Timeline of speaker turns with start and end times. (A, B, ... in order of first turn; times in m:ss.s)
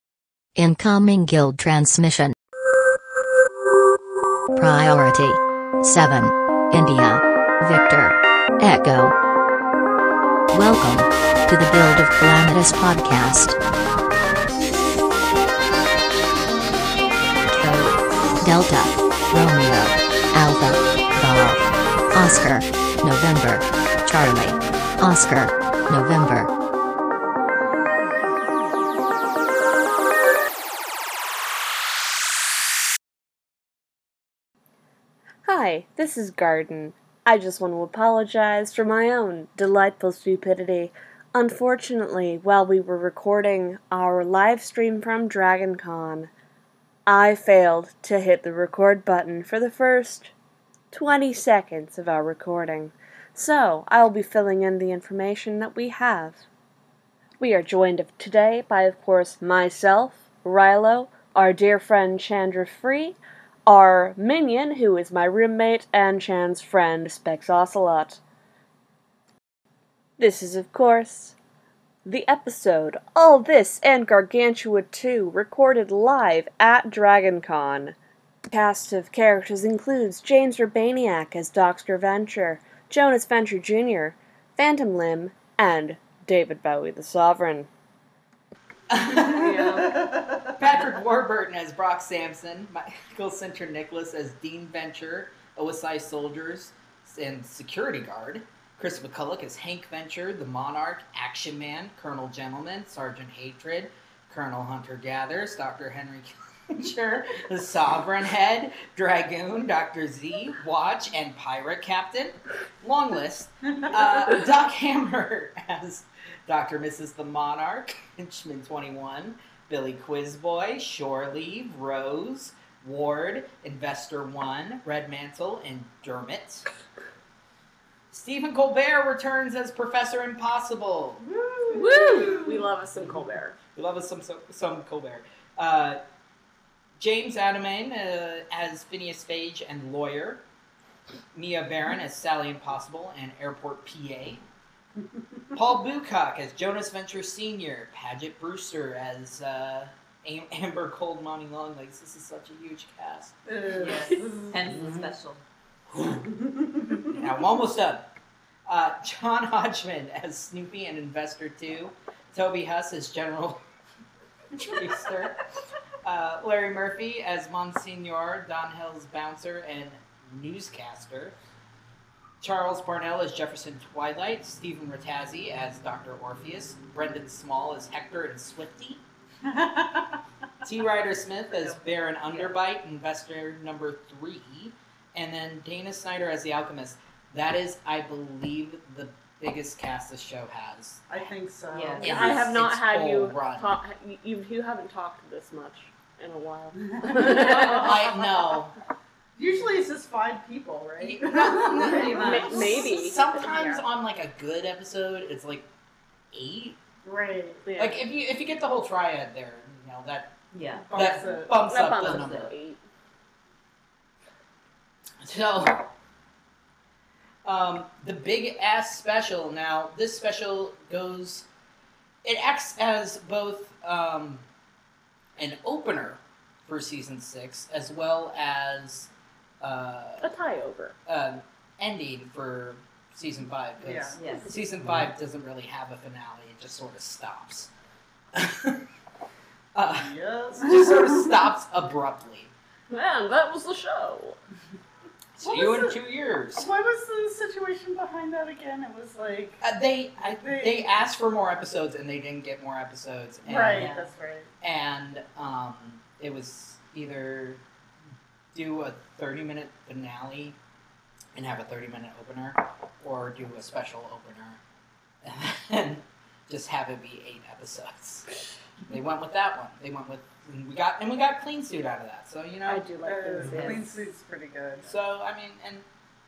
0:00.6-0:02.3 A
0:04.5-0:09.1 A
0:10.5-0:13.6 A
0:17.5-0:26.5 A
0:35.4-0:46.3 B
0:47.0-0:50.3 B
0:50.9-0:56.4 B
0:57.4-1:08.2 B
1:10.2-1:11.3 B
1:12.0-1:17.9 B
1:18.5-1:27.7 B
1:28.9-2:06.7 C
1:29.2-1:30.6 D
1:29.3-1:29.9 B
2:08.1-2:11.2 C
2:11.2-2:12.6 D
2:11.7-2:13.6 B
2:13.7-2:16.0 C
2:17.0-2:20.4 C
2:21.3-2:24.4 C
2:25.5-2:33.3 C
2:33.5-2:34.9 D
2:33.7-2:35.4 E
2:35.9-2:36.2 C
2:36.0-2:37.3 D
2:37.1-2:38.1 C
2:38.6-2:43.6 C
2:44.5-2:45.4 C
2:46.0-2:51.4 C
2:52.4-2:59.0 C
2:59.4-3:00.2 D
3:00.6-3:11.3 C
3:01.5-3:02.6 E
3:11.1-3:12.5 D
3:11.7-3:12.3 E
3:12.0-3:13.7 C
3:12.0-3:18.1 B
3:16.8-3:18.2 D
3:17.1-3:18.7 C
3:19.4-3:22.8 D
3:21.0-3:25.6 C
3:21.6-3:22.8 E
3:22.2-3:23.8 B
3:26.3-3:26.8 C
3:27.0-3:27.6 D
3:27.6-3:28.0 B
3:27.8-3:30.3 C
3:30.5-3:31.2 E
3:30.9-3:31.6 D
3:30.9-3:32.5 C
3:31.6-3:32.8 B
3:32.1-3:32.4 E
3:35.2-3:35.9 C
3:37.4-3:41.5 C
3:42.2-3:44.4 C
3:45.4-3:49.1 C
3:49.6-3:50.3 C
3:50.2-3:50.9 B
3:51.0-3:57.7 C
3:53.8-3:54.2 D
3:54.2-3:54.5 E
3:58.3-3:58.8 C
3:59.7-4:02.5 C
3:59.8-4:01.4 D
4:02.9-4:04.4 B
4:05.4-4:06.7 C
4:05.4-4:06.0 D
4:06.6-4:09.6 D
4:09.6-4:13.9 C
4:10.3-4:10.9 D
4:13.4-4:14.5 D
4:13.7-4:14.1 E
4:14.6-4:17.6 C
4:18.5-4:20.6 C
4:21.3-4:24.6 C
4:25.2-4:28.3 C
4:28.9-4:32.9 C
4:32.6-4:34.1 B
4:33.0-4:34.9 D
4:33.4-4:33.8 C
4:34.8-4:35.8 C